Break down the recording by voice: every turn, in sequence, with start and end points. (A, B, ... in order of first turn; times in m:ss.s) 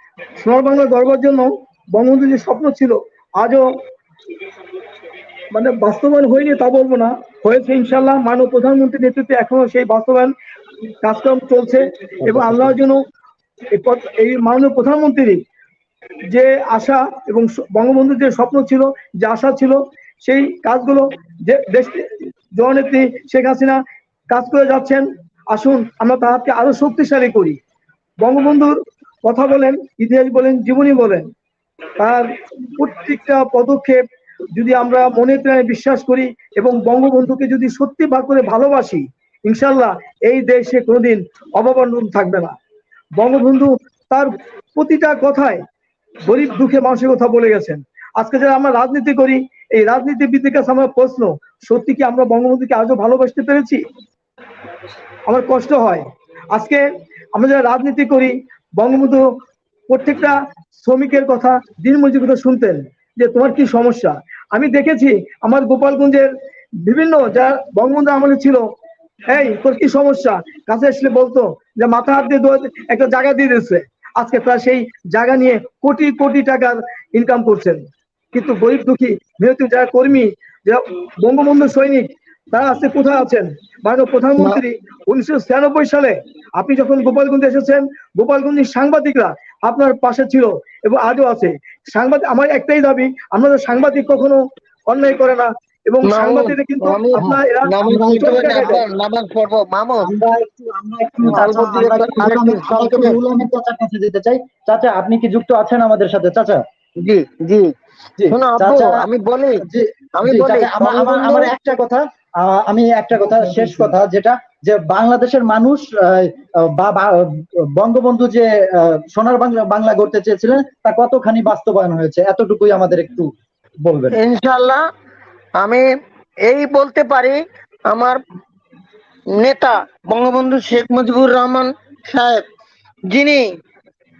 0:00.4-0:03.6 A
0:05.5-0:10.3 A
0:11.0-0:13.0 A
0:12.2-0:12.7 B
0:13.7-0:15.4 A
0:16.3-0:23.8 A
0:24.3-0:27.6 A
0:28.2-0:31.3 A
0:32.0-0:32.3 A
0:32.8-0:34.0 A
0:34.6-0:42.6 A
0:43.2-0:45.6 A
0:46.2-0:53.8 A
0:55.3-0:56.8 A
0:57.4-0:59.2 A
0:59.9-1:06.3 A
1:06.8-1:08.6 A
1:09.3-1:17.8 A
1:18.3-1:38.8 A
1:36.1-1:40.1 C
1:40.0-1:46.6 B
1:41.3-1:43.2 C
1:47.0-1:47.7 C
1:48.2-1:49.1 B
1:48.3-1:49.6 C
1:49.7-2:03.3 B
1:50.2-1:51.6 C
2:03.8-2:04.2 B
2:04.1-2:04.8 C
2:05.6-2:05.8 C
2:06.5-2:08.2 C
2:09.4-2:12.5 C
2:13.1-2:13.4 C